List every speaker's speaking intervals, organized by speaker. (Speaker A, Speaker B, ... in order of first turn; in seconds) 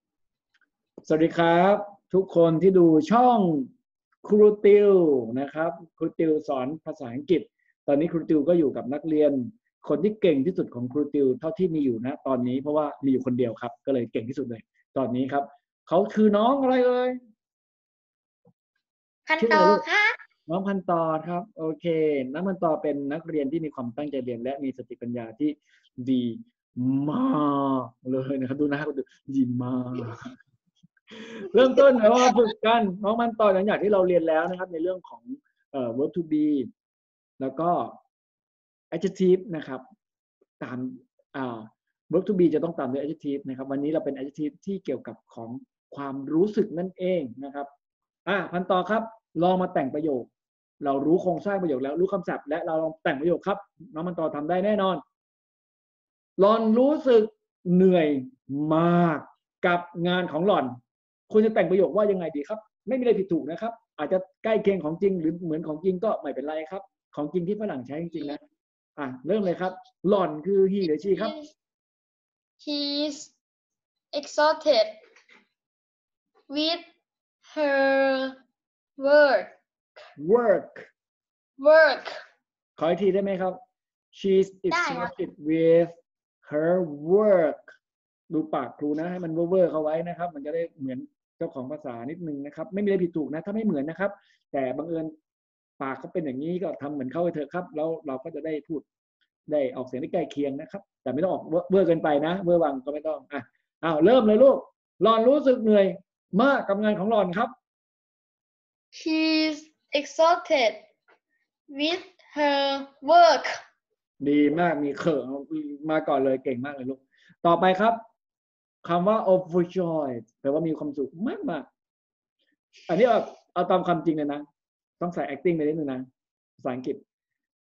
Speaker A: 1.1-3.7, 4.2-17.2, 19.4-19.9, 20.5-30.4, 31.1-36.7, 37.4-38.0, 38.9-39.8, 40.6-47.7, 48.3-50.3, 50.8-55.0, 56.4-60.8, 61.3-68.4, 69.0-71.3, 80.2-80.9, 82.8-83.6, 84.1-87.7, 88.3-95.1, 95.8-98.8, 99.5-107.5, 114.2-118.0, 118.8-121.7, 122.9-124.5, 125.0-126.1, 126.6-127.0
Speaker B: 19.3-20.2, 70.8-71.5, 72.6-73.3, 74.1-75.0, 76.5-76.8, 77.5-78.3, 79.0-79.5, 81.6-82.2, 84.7-85.1, 109.0-110.8, 111.7-113.6